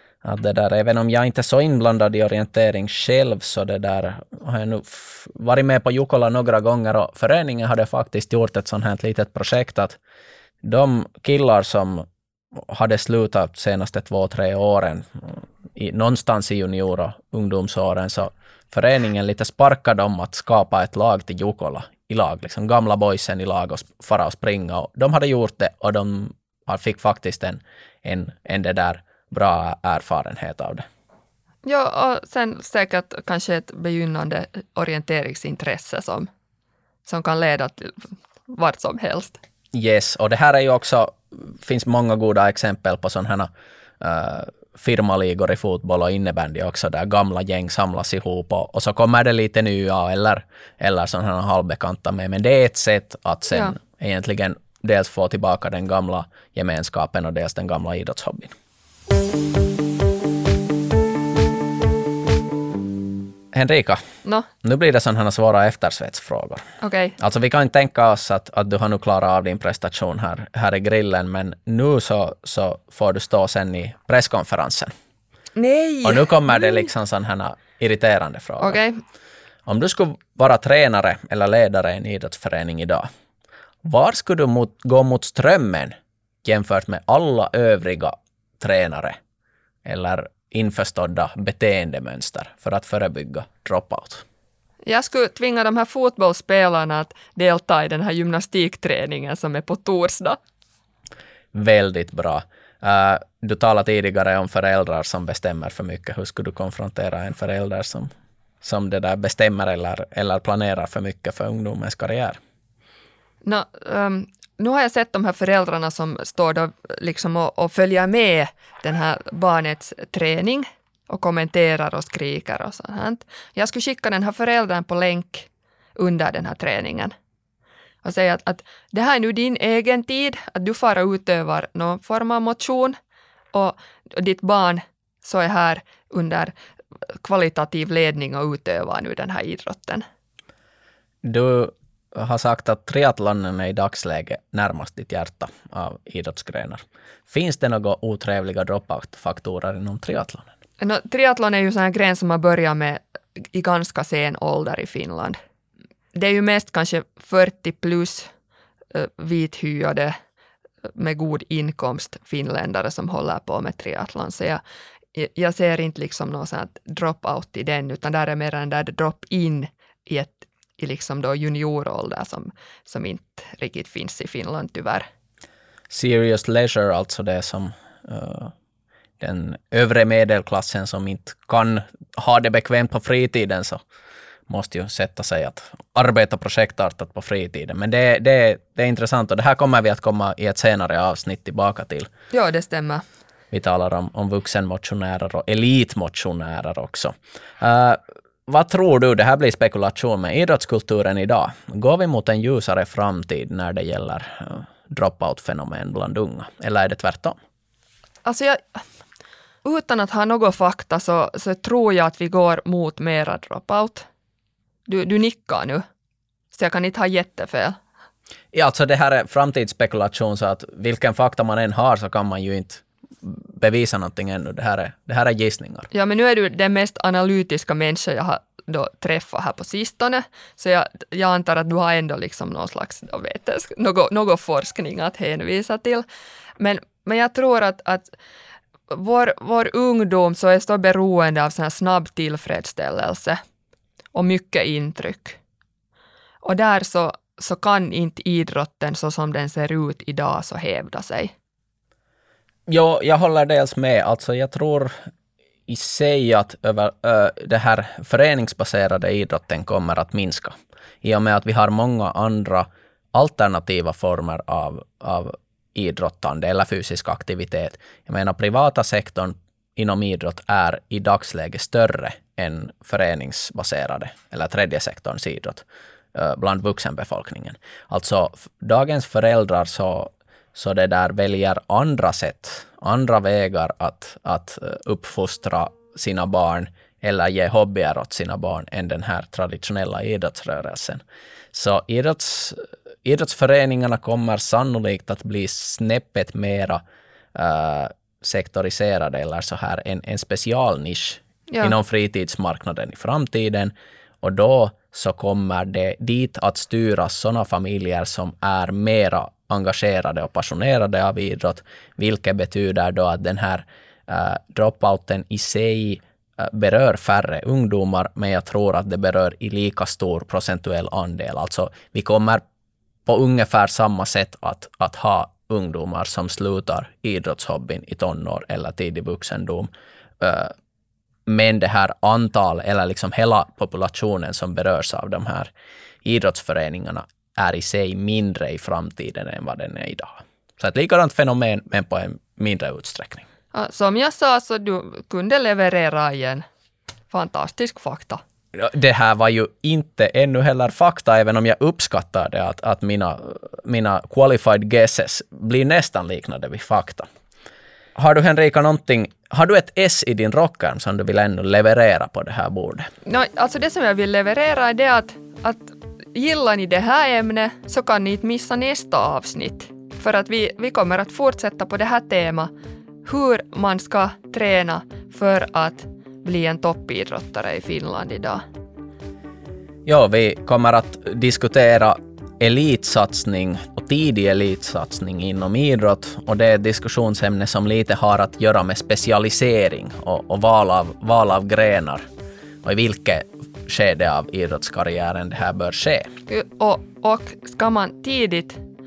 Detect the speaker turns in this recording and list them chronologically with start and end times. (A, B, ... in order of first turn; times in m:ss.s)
0:00.2-0:10.0 A
0:10.6-0:12.0 A
0:12.6-0:30.8 A
0:31.6-0:36.3 B
0:37.0-0:39.4 B
0:39.7-0:43.5 A
0:44.0-0:58.5 A
1:03.5-1:04.0 A
1:04.6-1:06.6 A
1:06.8-1:07.2 B
1:07.2-1:14.9 A
1:15.6-1:16.9 B
1:16.0-1:18.8 A
1:18.6-1:19.0 B
1:19.6-1:23.1 A
1:23.8-1:29.2 A
1:29.8-1:34.2 A
1:34.8-1:40.4 B
1:41.5-1:52.4 A
1:53.4-2:07.1 B
2:08.0-2:13.0 B
2:13.5-2:16.5 B
2:17.1-2:20.0 B
2:21.2-2:30.5 A
2:30.8-2:35.4 B
2:36.1-2:38.3 B
2:38.9-2:40.1 B
2:40.9-2:44.6 B
2:45.1-2:55.0 B
2:55.9-2:58.5 A
2:59.2-3:03.8 A
3:04.5-3:12.1 A
3:12.3-3:13.0 B
3:13.5-3:27.4 A
3:28.2-3:28.8 B
3:29.6-3:34.0 B
3:34.9-3:35.8 B
3:36.5-3:37.8 B
3:38.5-3:45.9 A
3:45.9-3:56.0 B
3:56.6-3:58.1 B
3:58.9-4:03.4 B
4:04.1-4:05.4 B
4:06.4-4:11.3 B
4:12.7-4:14.9 A
4:15.7-4:51.0 A
4:51.5-4:56.8 A
4:57.3-5:22.4 A
5:23.0-5:29.7 A
5:30.2-5:30.5 A
5:31.3-5:35.5 A
5:36.0-5:43.2 A
5:43.5-5:46.4 B
5:47.1-5:48.2 B
5:48.5-5:57.1 A
5:58.0-6:02.9 A
6:03.0-6:12.5 B
6:13.0-6:18.4 B
6:19.8-6:32.0 A
6:32.6-6:36.1 A
6:36.3-6:38.6 B